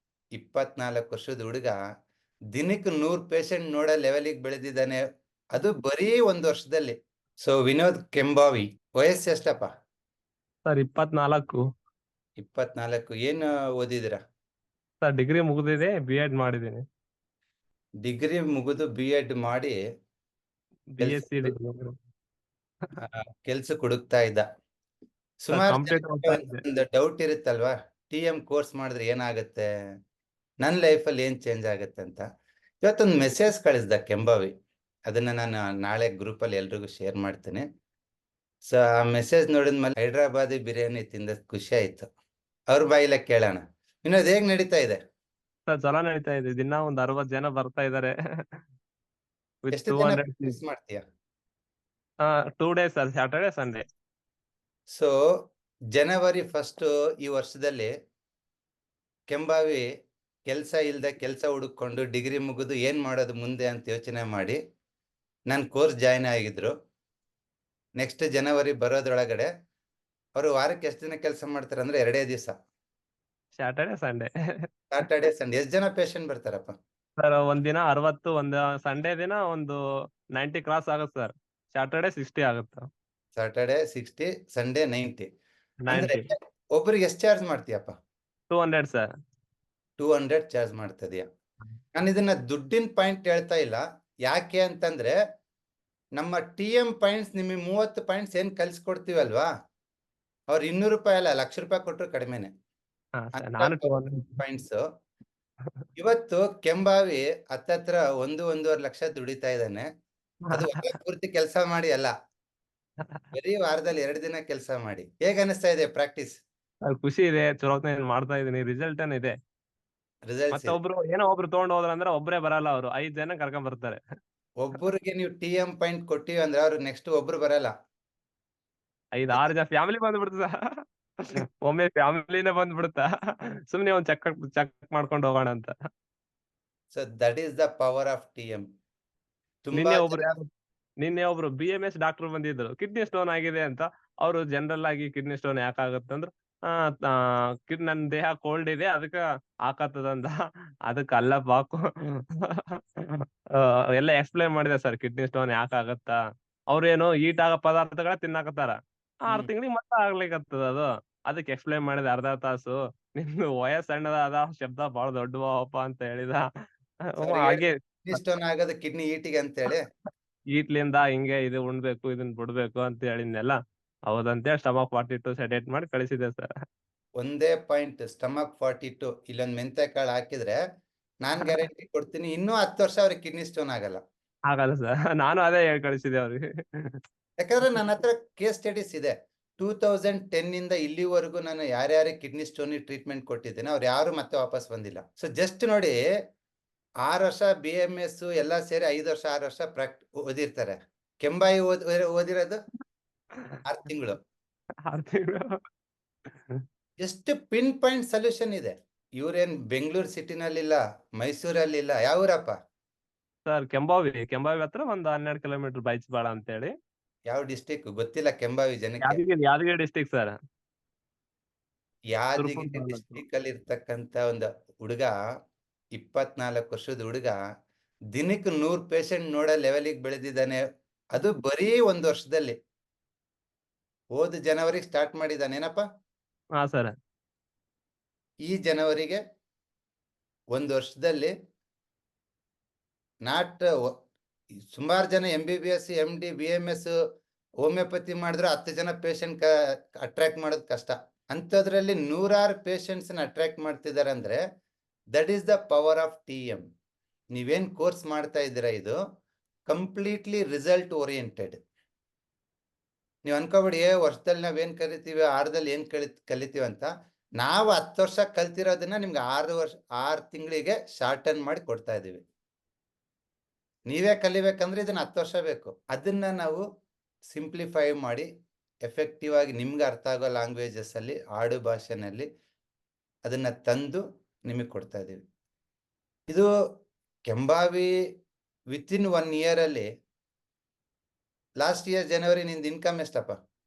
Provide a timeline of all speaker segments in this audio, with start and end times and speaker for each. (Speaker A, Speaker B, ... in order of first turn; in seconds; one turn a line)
Speaker A: 0.3-1.8
Speaker A: 2.5-5.0
Speaker A: 5.5-6.9
Speaker A: 7.4-9.7
Speaker B: 10.7-11.6
Speaker A: 12.4-14.2
Speaker B: 15.0-16.8
Speaker A: 18.0-19.8
Speaker B: 20.9-21.9
Speaker A: 21.0-21.5
Speaker A: 23.0-24.4
Speaker A: 25.4-29.7
Speaker B: 25.5-26.6
Speaker A: 30.6-32.2
Speaker A: 32.8-34.5
Speaker A: 35.1-37.6
Speaker A: 38.7-42.0
Speaker A: 42.7-45.0
Speaker B: 45.7-48.1
Speaker B: 49.6-50.6
Speaker A: 49.7-51.0
Speaker B: 52.2-53.8
Speaker A: 55.9-57.9
Speaker A: 59.3-59.8
Speaker A: 60.5-64.6
Speaker A: 65.5-66.7
Speaker A: 68.0-69.5
Speaker A: 70.4-72.5
Speaker B: 73.6-74.3
Speaker A: 74.9-76.8
Speaker B: 77.2-79.8
Speaker B: 80.3-82.9
Speaker A: 83.3-85.3
Speaker B: 85.8-86.2
Speaker A: 85.9-87.9
Speaker B: 88.5-89.1
Speaker A: 90.0-91.2
Speaker A: 91.9-95.1
Speaker A: 96.2-99.5
Speaker A: 100.5-102.5
Speaker B: 103.2-104.4
Speaker A: 103.3-104.8
Speaker A: 106.0-109.8
Speaker B: 110.5-110.8
Speaker A: 110.5-112.1
Speaker A: 113.3-116.4
Speaker B: 116.9-119.3
Speaker A: 120.3-120.8
Speaker B: 120.5-124.0
Speaker A: 124.6-127.7
Speaker B: 129.2-130.5
Speaker B: 131.3-133.1
Speaker B: 133.7-135.7
Speaker A: 136.9-138.6
Speaker A: 139.6-140.3
Speaker B: 139.7-140.5
Speaker B: 141.0-150.4
Speaker B: 150.9-156.1
Speaker B: 156.7-166.4
Speaker B: 167.1-168.2
Speaker A: 167.2-169.8
Speaker B: 170.5-173.6
Speaker B: 174.1-176.5
Speaker A: 177.2-180.6
Speaker A: 181.2-184.0
Speaker B: 184.5-187.0
Speaker A: 187.4-195.9
Speaker A: 197.1-202.6
Speaker A: 203.7-204.2
Speaker B: 204.9-205.6
Speaker B: 206.3-206.6
Speaker A: 207.0-212.5
Speaker B: 213.5-216.7
Speaker A: 217.3-219.2
Speaker B: 219.0-220.3
Speaker A: 222.1-225.1
Speaker B: 222.4-223.2
Speaker A: 225.9-227.4
Speaker A: 228.1-230.6
Speaker A: 231.1-232.5
Speaker A: 234.2-235.8
Speaker B: 236.6-236.9
Speaker A: 238.5-239.2
Speaker A: 240.5-241.3
Speaker A: 243.2-243.9
Speaker A: 244.7-246.9
Speaker A: 247.6-249.5
Speaker A: 250.0-254.4
Speaker A: 255.1-256.6
Speaker A: 257.3-259.0
Speaker A: 259.7-261.6
Speaker A: 263.2-266.9
Speaker A: 267.4-272.2
Speaker A: 273.9-276.6
Speaker A: 277.3-278.3
Speaker A: 278.9-282.3
Speaker A: 283.2-285.2
Speaker A: 287.3-287.9
Speaker A: 288.7-289.9
Speaker A: 291.6-293.3